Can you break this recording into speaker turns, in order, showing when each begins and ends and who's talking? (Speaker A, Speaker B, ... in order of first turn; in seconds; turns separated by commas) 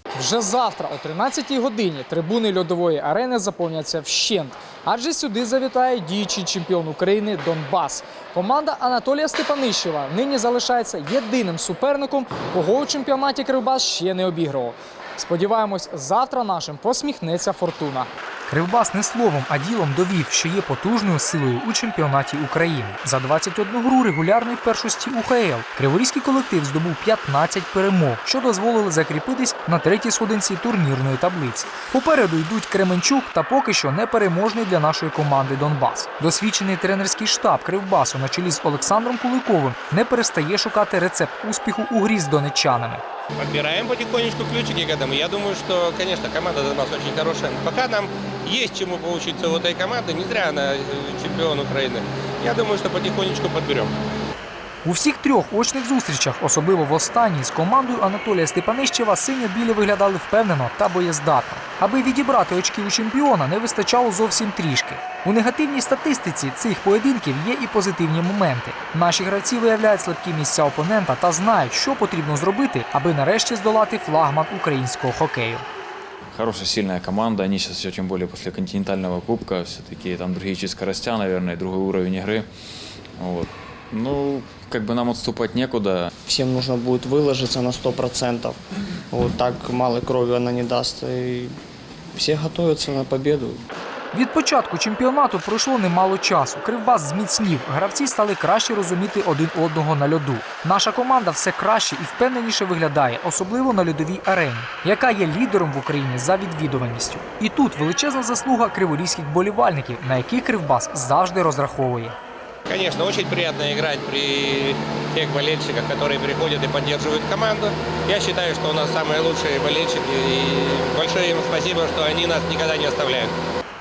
Speaker A: 0.1-43.0, Speaker B: 43.4-53.9, Speaker A: 54.8-75.7, Speaker C: 76.3-82.5, Speaker C: 83.2-86.1, Speaker D: 86.3-88.6, Speaker D: 89.1-91.5, Speaker D: 92.1-93.6, Speaker A: 94.1-112.2, Speaker B: 112.7-123.3